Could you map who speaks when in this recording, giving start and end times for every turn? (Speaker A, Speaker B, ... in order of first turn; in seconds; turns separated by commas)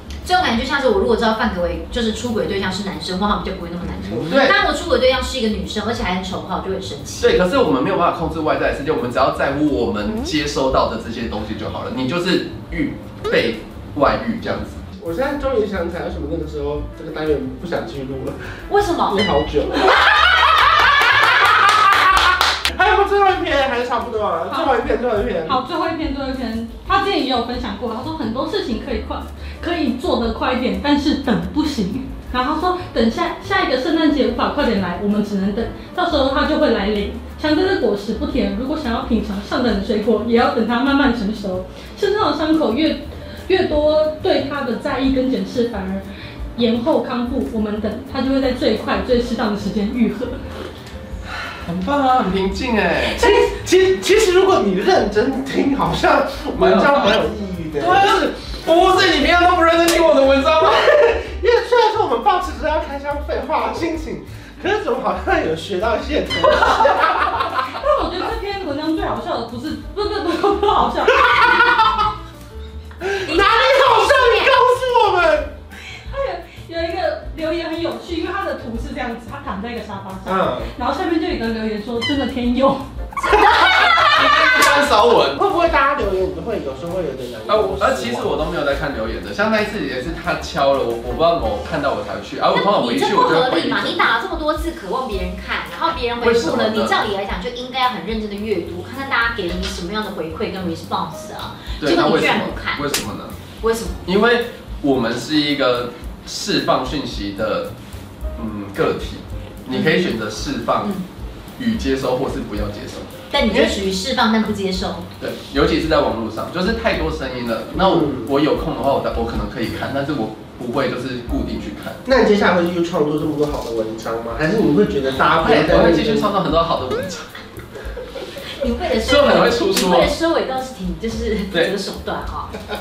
Speaker A: 0.2-7.4, Speaker B: 4.3-4.6, Speaker B: 7.2-14.8, Speaker C: 15.0-18.4, Speaker A: 18.7-19.2, Speaker C: 19.1-25.6, Speaker D: 24.5-24.8, Speaker D: 25.4-50.4, Speaker B: 51.5-53.2, Speaker C: 53.1-58.3, Speaker B: 56.6-57.2, Speaker B: 57.8-60.9, Speaker C: 60.6-67.7, Speaker D: 67.6-71.5, Speaker C: 71.1-72.1, Speaker C: 73.0-75.5, Speaker A: 73.3-74.5, Speaker D: 76.0-82.8, Speaker C: 80.2-80.7, Speaker A: 83.2-84.6, Speaker C: 83.4-83.9, Speaker B: 83.8-85.4, Speaker C: 85.3-88.3, Speaker B: 87.5-94.1, Speaker A: 92.5-102.8, Speaker B: 96.2-97.0, Speaker B: 101.8-103.4, Speaker A: 103.6-104.0, Speaker B: 104.1-107.7, Speaker B: 108.4-110.9, Speaker A: 109.7-110.1, Speaker B: 111.6-113.8, Speaker A: 113.3-115.0, Speaker B: 115.2-122.0, Speaker C: 117.8-118.3, Speaker C: 122.0-126.3, Speaker B: 125.2-127.3, Speaker A: 128.6-132.6, Speaker B: 129.0-130.2